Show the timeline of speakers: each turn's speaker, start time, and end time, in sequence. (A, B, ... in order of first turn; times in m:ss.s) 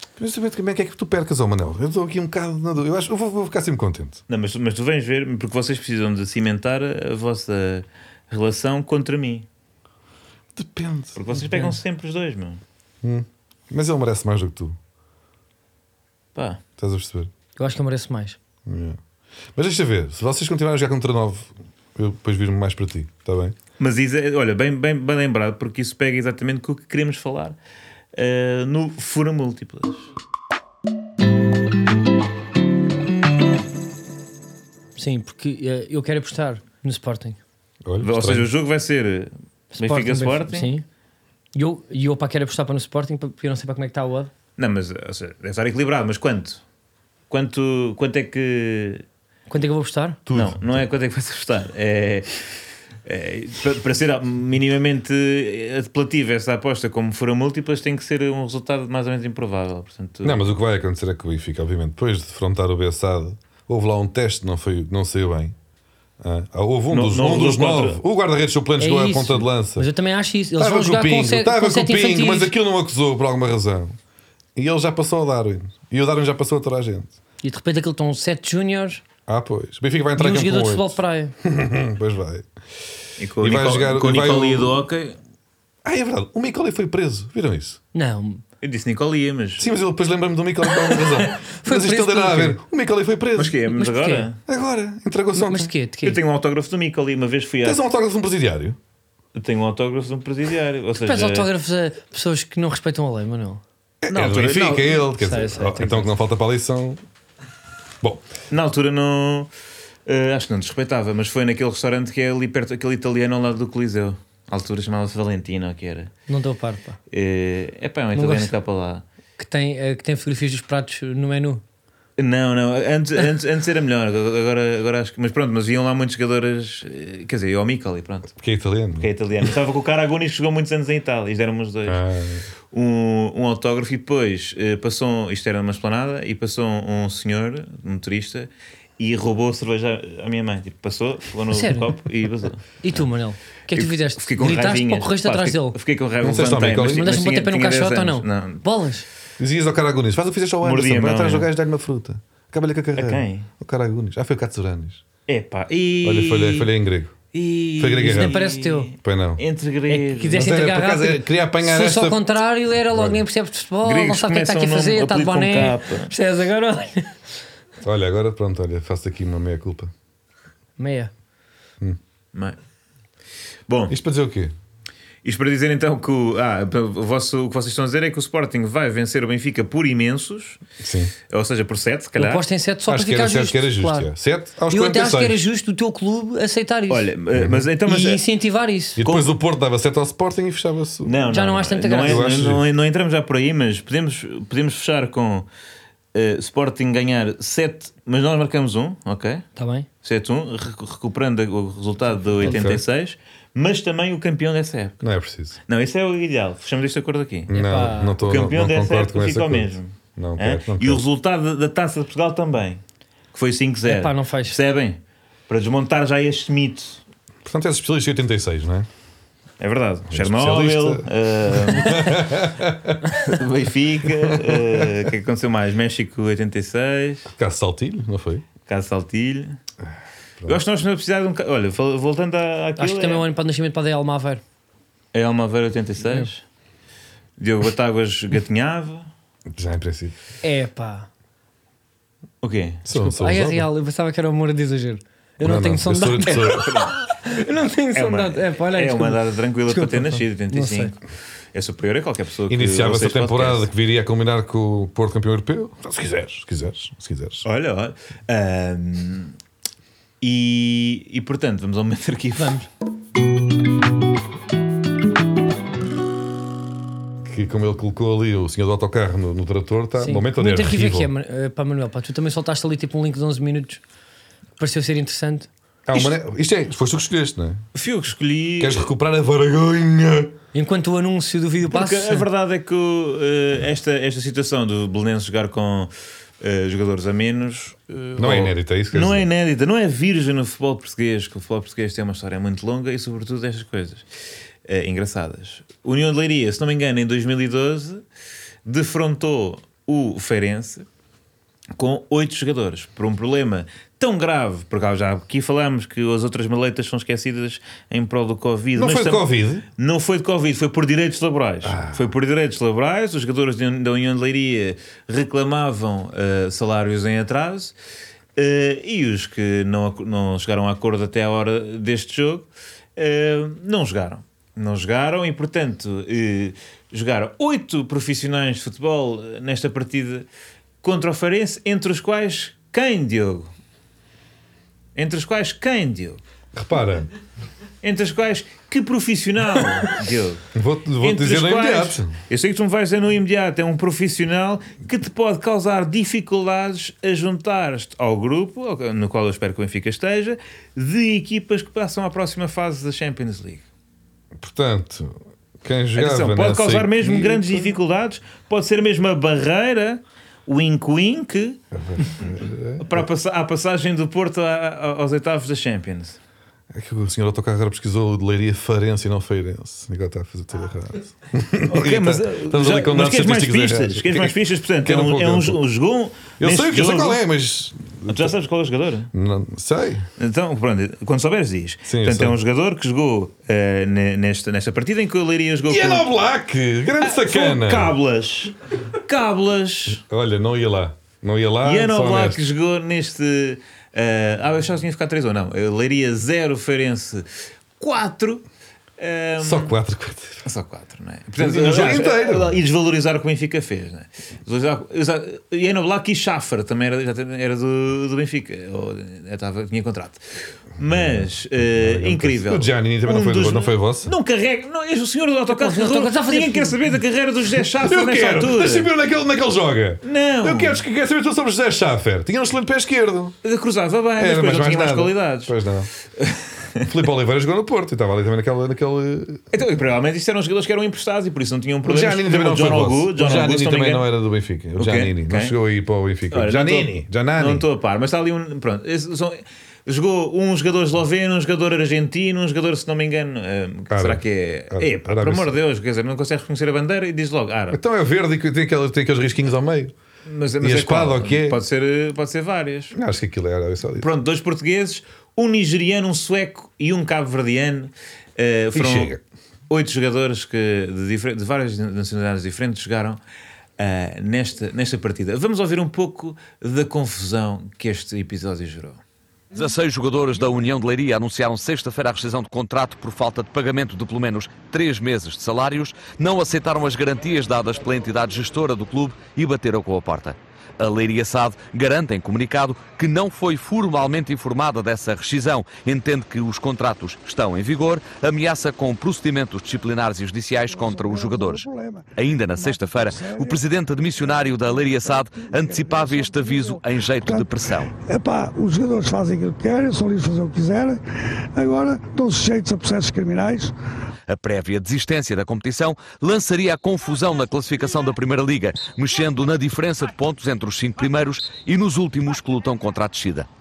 0:00.2-0:04.2 A
0:04.3-0:09.5 B
0:10.6-0:11.2 A
0:11.2-0:12.6 B
0:11.5-0:11.8 C
0:13.0-0:14.8 A
0:16.4-0:16.6 B
0:16.8-0:17.3 A
0:17.6-0:18.4 C
0:18.7-0:19.0 A
0:19.6-0:23.6 A
0:23.8-0:27.6 B
0:28.2-0:30.1 B
0:35.0-0:37.4 C
0:37.8-0:38.5 A
0:38.0-0:40.7 B
0:39.8-0:40.8 C
0:41.5-0:44.3 C
0:44.6-0:46.6 B
0:47.3-0:49.0 B
0:49.5-0:50.2 C
0:50.3-0:50.9 A
0:50.3-0:52.4 B
0:53.0-1:00.5 B
1:00.2-1:05.6 A
1:06.2-1:09.9 A
1:06.9-1:08.0 B
1:08.8-1:12.5 C
1:10.6-1:14.0 A
1:14.6-1:17.1 A
1:17.4-1:19.0 C
1:19.3-1:22.5 A
1:20.2-1:21.4 C
1:23.2-1:25.2 B
1:23.4-1:24.8 A
1:25.8-1:27.8 A
1:27.9-1:28.4 C
1:28.6-1:29.7 B
1:29.6-1:33.6 A
1:30.8-1:32.6 C
1:33.4-1:34.4 B
1:33.7-1:34.3 C
1:34.5-1:35.7 A
1:35.4-1:36.2 C
1:36.0-1:37.8 B
1:37.6-1:38.8 A
1:39.3-1:41.5 B
1:41.0-1:43.6 C
1:44.0-1:47.0 A
1:44.1-1:45.0 B
1:45.2-1:46.1 C
1:48.5-1:49.5 B
1:50.1-1:56.1 B
1:56.3-1:57.0 C
1:57.1-1:59.0 B
1:58.2-1:58.5 C
1:59.4-2:01.6 C
2:02.2-2:08.3 B
2:08.4-2:09.1 A
2:09.0-2:12.0 B
2:11.9-2:12.5 A
2:12.7-2:23.0 B
2:21.5-2:21.9 C
2:22.8-2:25.8 C
2:23.7-2:28.7 B
2:26.2-2:27.1 A
2:26.9-2:29.0 C
2:29.4-2:35.0 A
2:30.6-2:31.5 B
2:33.0-2:33.5 B
2:35.3-2:36.7 B
2:36.0-2:37.2 A
2:37.3-2:40.5 B
2:37.8-2:38.4 A
2:38.0-2:38.9 C
2:39.0-2:39.4 A
2:39.9-2:47.2 C
2:40.3-2:42.3 A
2:42.9-2:43.2 A
2:43.8-2:46.1 B
2:47.8-2:49.9 A
2:50.8-2:51.1 C
2:53.7-2:54.0 B
2:53.9-2:54.5 A
2:55.2-3:00.6 B
3:00.8-3:01.1 A
3:01.3-3:02.4 B
3:02.2-3:04.1 C
3:02.9-3:05.4 A
3:04.7-3:07.1 C
3:06.9-3:08.2 B
3:07.4-3:07.6 A
3:07.8-3:09.0 C
3:09.0-3:11.2 A
3:09.0-3:09.3 B
3:11.0-3:15.5 B
3:11.3-3:12.4 C
3:12.0-3:12.6 A
3:16.1-3:19.4 B
3:19.6-3:19.9 C
3:20.0-3:25.1 B
3:22.4-3:22.8 A
3:25.0-3:25.6 A
3:25.7-3:27.5 B
3:27.5-3:31.0 A
3:27.5-3:28.2 C
3:28.2-3:32.8 B
3:33.3-3:37.0 B
3:33.8-3:34.6 C
3:37.4-3:38.9 A
3:39.6-3:42.3 B
3:40.1-3:43.0 A
3:43.1-3:47.3 B
3:44.2-3:44.9 A
3:47.3-3:48.5 A
3:48.7-3:49.6 B
3:50.5-3:53.2 B
3:52.8-3:54.4 C
3:55.1-3:56.4 B
3:57.4-3:59.1 B
3:59.5-4:00.2 A
4:00.4-4:01.1 C
4:02.4-4:02.8 B
4:02.8-4:03.7 A
4:02.9-4:06.6 C
4:05.4-4:06.9 A
4:06.3-4:07.0 B
4:07.2-4:10.9 C
4:08.0-4:11.0 B
4:11.5-4:13.7 B
4:12.5-4:17.5 A
4:17.4-4:19.4 B
4:20.2-4:22.6 B
4:22.4-4:22.7 C
4:27.3-4:31.1 A
4:30.0-4:33.8 C
4:34.6-4:35.5 C
4:35.9-4:37.6 A
4:37.7-4:38.9 B
4:38.6-4:40.3 A
4:40.5-4:42.3 C
4:41.6-4:54.1 B
4:48.2-4:49.3 A
4:54.7-4:58.0 B
4:58.6-5:00.8 B
5:01.8-5:17.7 B
5:08.8-5:09.6 A
5:11.6-5:12.1 A
5:18.4-5:30.3 B
5:30.8-5:33.5 B
5:35.0-5:36.2 B
5:36.6-5:37.1 A
5:37.8-5:40.5 B
5:40.5-5:42.2 A
5:41.0-5:53.6 B
5:54.4-5:57.7 A
5:56.0-6:01.6 B
6:01.7-6:03.1 A
6:02.8-6:06.2 B
6:06.7-6:15.6 A
6:11.7-6:17.2 B
6:16.4-6:18.3 A
6:18.1-6:19.1 B
6:19.1-6:20.1 A
6:20.2-6:26.1 B
6:21.9-6:22.4 A
6:25.7-6:28.0 A
6:27.0-6:30.0 B
6:29.9-6:32.5 A
6:31.6-6:37.3 B
6:37.8-6:38.4 B
6:39.0-6:39.7 B
6:39.4-6:40.4 A
6:40.4-6:50.2 B
6:41.4-6:42.6 A
6:50.8-6:58.9 B
6:50.8-6:51.3 A
6:51.8-6:54.1 A
6:55.5-6:56.8 C
6:57.8-7:03.4 A
7:00.0-7:00.8 B
7:03.4-7:05.6 B
7:04.2-7:05.9 A
7:06.2-7:06.9 B
7:06.8-7:09.4 A
7:09.5-7:14.1 B
7:11.8-7:17.7 A
7:14.8-7:15.6 B
7:16.3-7:27.8 B
7:23.9-7:25.6 A
7:27.7-7:29.9 A
7:30.3-7:33.0 B
7:30.6-7:31.6 A
7:32.9-7:34.1 A
7:34.0-7:39.1 B
7:38.7-7:39.2 A
7:39.7-7:43.2 B
7:43.8-7:49.0 B
7:49.5-8:17.9 D
8:10.7-8:13.6 E
8:14.2-8:21.0 E
8:21.6-8:23.7 E
8:24.3-8:33.5 D